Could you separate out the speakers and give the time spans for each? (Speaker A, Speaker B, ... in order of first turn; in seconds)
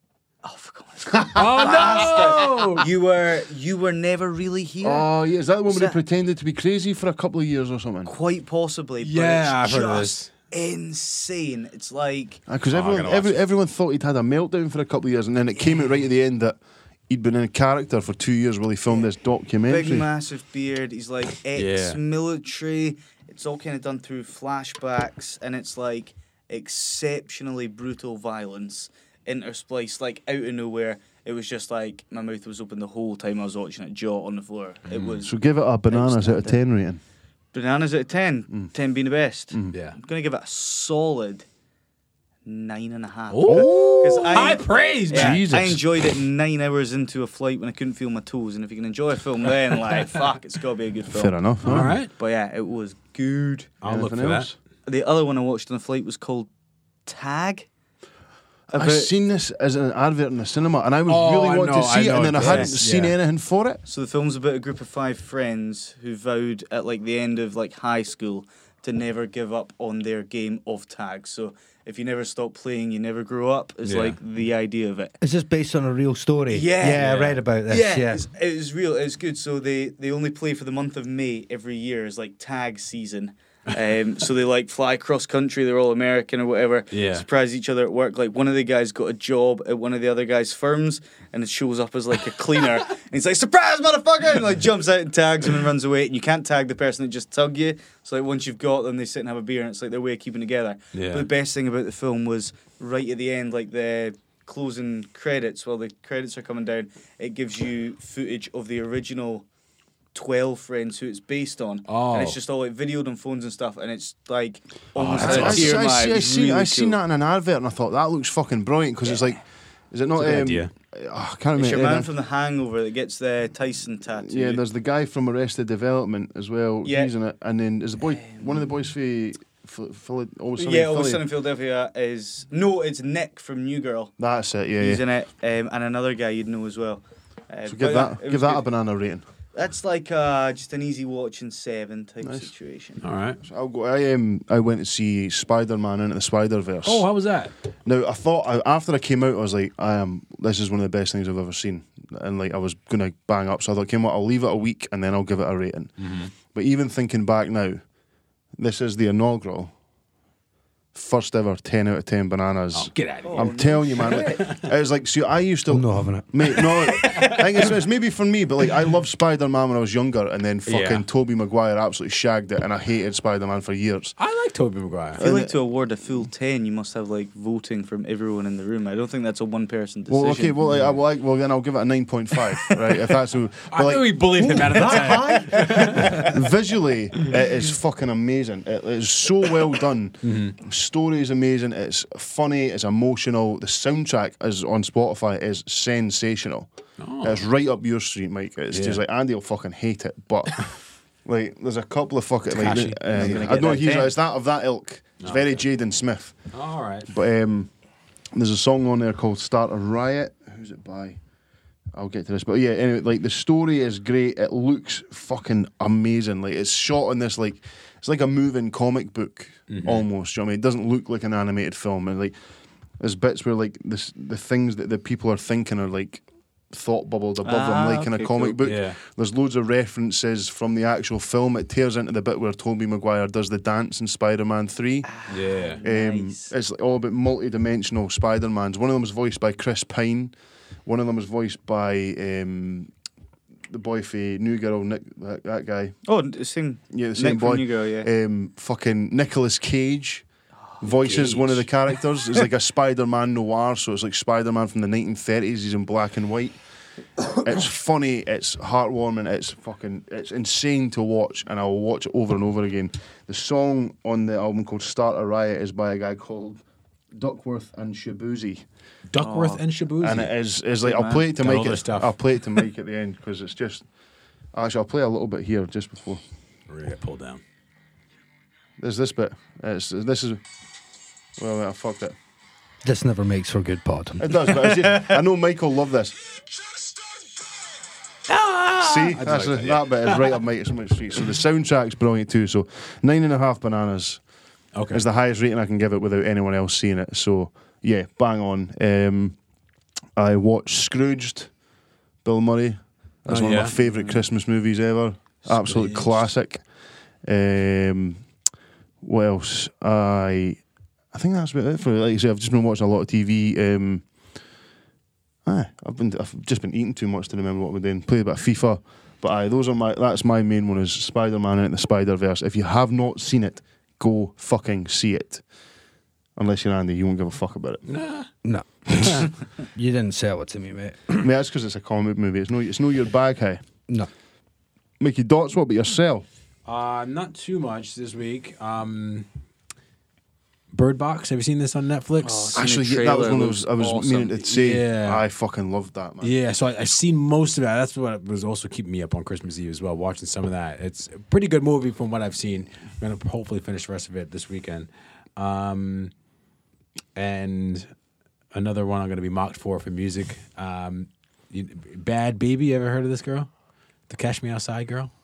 Speaker A: 0.4-5.1, 5.7-6.0, 8.0-12.4, 19.6-35.4, 35.9-36.6, 37.5-41.5, 42.5-53.8, 54.8-56.5, 57.0-57.7, 58.7-59.1, 62.4-62.7, 63.9-75.2, 76.5-77.1, 77.7-109.4, 110.1-117.0, 121.6-124.6, 126.8-127.1, 128.2-128.5, 130.6-134.1, 134.8-138.6, 139.5-143.0, 163.2-164.4, 175.2-180.6, 184.9-186.2, 203.1-204.2, 227.4-228.6, 235.1-236.5, 246.1-248.1, 269.2-269.6, 270.8-271.3, 284.8-285.2, 342.2-344.3
Speaker B: 1.1-1.6, 4.8-8.1, 12.5-20.1, 35.2-37.0, 43.5-44.2, 45.1-45.8, 51.1-52.0, 53.9-54.6, 58.7-63.8, 115.2-122.1, 124.2-131.2, 134.2-135.0, 137.7-139.2, 143.4-147.1, 147.8-157.8, 158.6-159.7, 160.9-174.2, 175.2-175.5, 180.1-184.4, 185.9-196.7, 197.2-206.4, 207.1-207.7, 208.3-211.2, 211.9-222.3, 223.0-235.1, 235.8-240.3, 240.8-242.9, 243.7-246.0, 246.9-250.2, 250.8-256.6, 257.4-266.6, 267.1-268.6, 270.0-273.9, 274.5-276.2, 278.8-280.4, 281.4-282.1, 284.2-286.1, 288.8-294.2, 294.9-299.4, 300.1-301.5, 302.2-306.6, 307.2-308.2, 309.0-314.0, 315.4-325.4, 326.4-327.8, 331.2-333.6, 335.0-336.2, 342.5-346.3
Speaker C: 1.3-2.9, 9.0-10.3, 12.7-13.3, 21.5-22.0, 34.9-35.2, 39.7-40.0, 43.3-45.4, 51.6-52.1, 53.8-54.5, 61.1-63.2, 73.8-74.2, 77.0-77.4, 86.9-87.2, 100.9-101.3, 111.9-112.4, 115.0-115.8, 120.2-120.7, 143.0-143.4, 146.8-147.5, 156.0-156.3, 162.7-164.6, 166.5-167.8, 170.7-171.1, 174.2-175.2, 180.7-181.0, 183.7-186.3, 190.2-190.6, 197.0-197.4, 198.7-199.0, 202.5-203.6, 205.2-205.6, 206.5-207.1, 219.7-220.1, 228.6-229.0, 235.3-235.8, 250.8-251.7, 269.1-270.3, 271.4-272.1, 276.7-277.4, 288.3-290.4, 294.7-295.1, 303.3-303.7, 305.4-306.3, 327.9-328.3, 336.6-339.2, 340.7-342.6, 344.4-345.2, 346.2-356.1, 357.1-357.9, 358.5-363.5, 364.1-365.1
Speaker D: 75.2-78.2, 165.7-166.3, 184.7-185.9, 282.8-284.5, 328.4-331.3